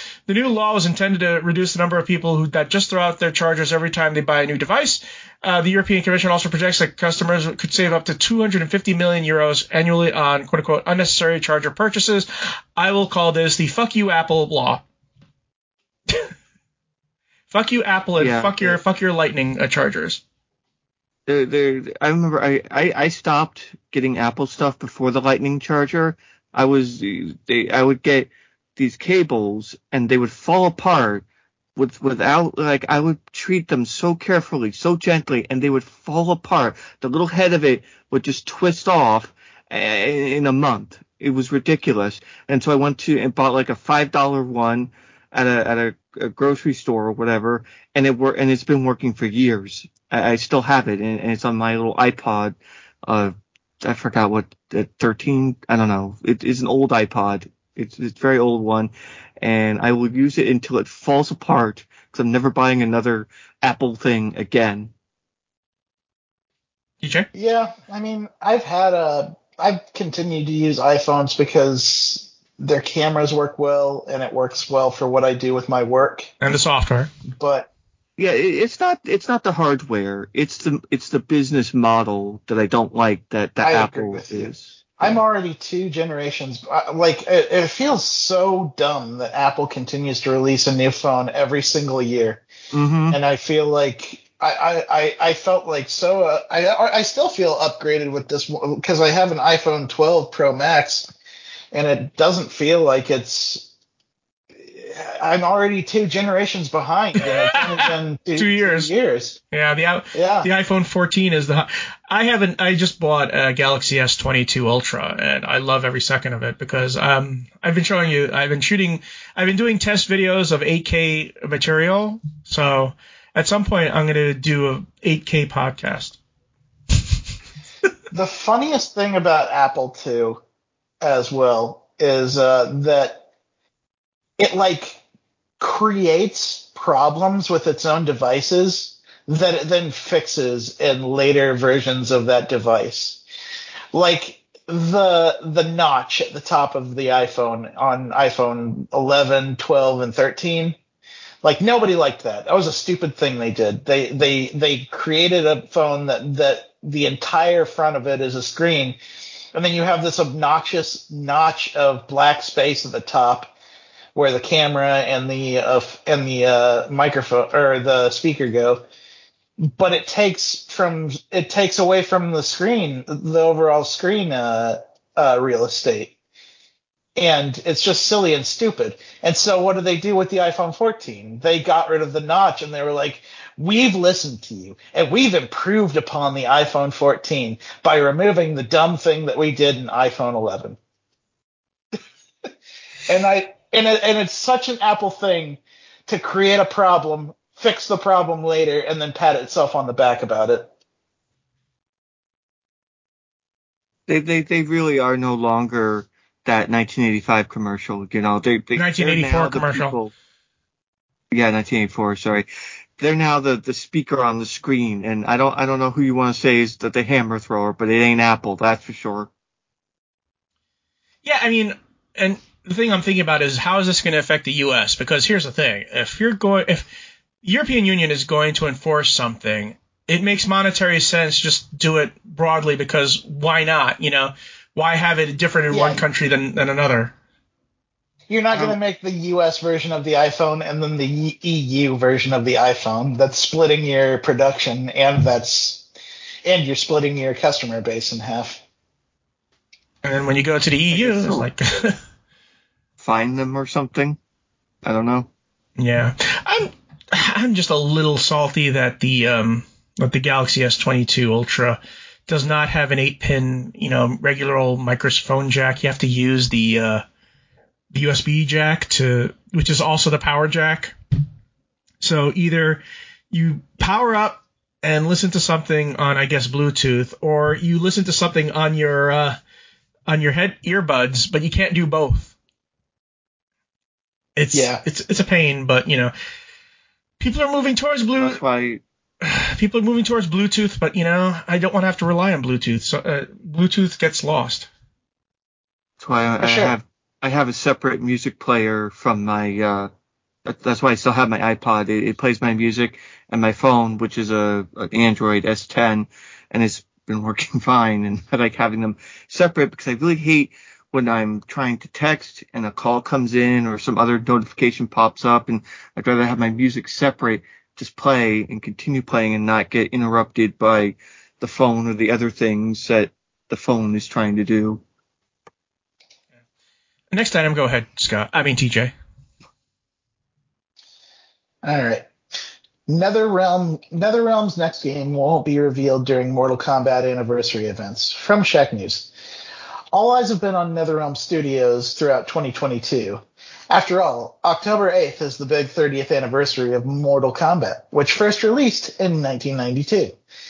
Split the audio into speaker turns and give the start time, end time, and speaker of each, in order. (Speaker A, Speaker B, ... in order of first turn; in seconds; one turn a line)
Speaker A: 0.3-14.8
Speaker A: 17.5-20.2
Speaker B: 18.2-18.8
Speaker B: 21.3-31.2
Speaker B: 31.8-52.5
Speaker B: 53.1-64.9
Speaker A: 67.0-67.3
Speaker C: 67.3-76.3
Speaker A: 76.4-77.1
Speaker C: 77.3-77.7
Speaker B: 78.2-85.2
Speaker C: 83.6-92.4
Speaker B: 92.7-93.2
Speaker C: 93.1-101.1
Speaker C: 101.7-103.7
Speaker C: 104.6-109.4
Speaker A: 107.2-108.9
Speaker A: 109.5-126.2
Speaker C: 110.1-110.5
Speaker C: 128.1-130.4
Speaker C: 131.0-133.2
Speaker C: 134.4-135.0
Speaker C: 135.6-143.2
Speaker C: 143.9-150.8
Speaker C: 151.4-159.0
Speaker C: 159.5-163.5
Speaker C: 164.1-168.8
Speaker C: 169.7-176.1
Speaker C: 177.2-190.8
Speaker C: 193.1-200.7
Speaker B: 204.1-210.1
Speaker A: 208.8-209.9
Speaker B: 211.3-212.4
Speaker B: 213.0-219.3
Speaker A: 221.2-226.9
Speaker A: 227.4-237.1
Speaker C: 235.7-236.1
Speaker C: 238.3-245.8
Speaker C: 246.4-248.6
Speaker A: 250.0-252.0
Speaker B: 250.9-251.5
Speaker B: 253.0-254.2
Speaker B: 254.8-255.3
Speaker A: 255.8-267.0
Speaker A: 267.9-270.9
Speaker A: 272.0-279.4
Speaker A: 280.1-282.3
Speaker A: 284.4-286.1
Speaker C: 284.5-284.8
Speaker A: 287.2-288.4
Speaker B: 288.1-288.8
Speaker A: 289.2-294.7
Speaker B: 296.0-299.9
Speaker C: 296.4-296.8
Speaker B: 300.4-324.8
Speaker A: 327.1-328.9
Speaker C: 331.6-332.1
Speaker C: 332.9-339.1
Speaker C: 339.9-350.1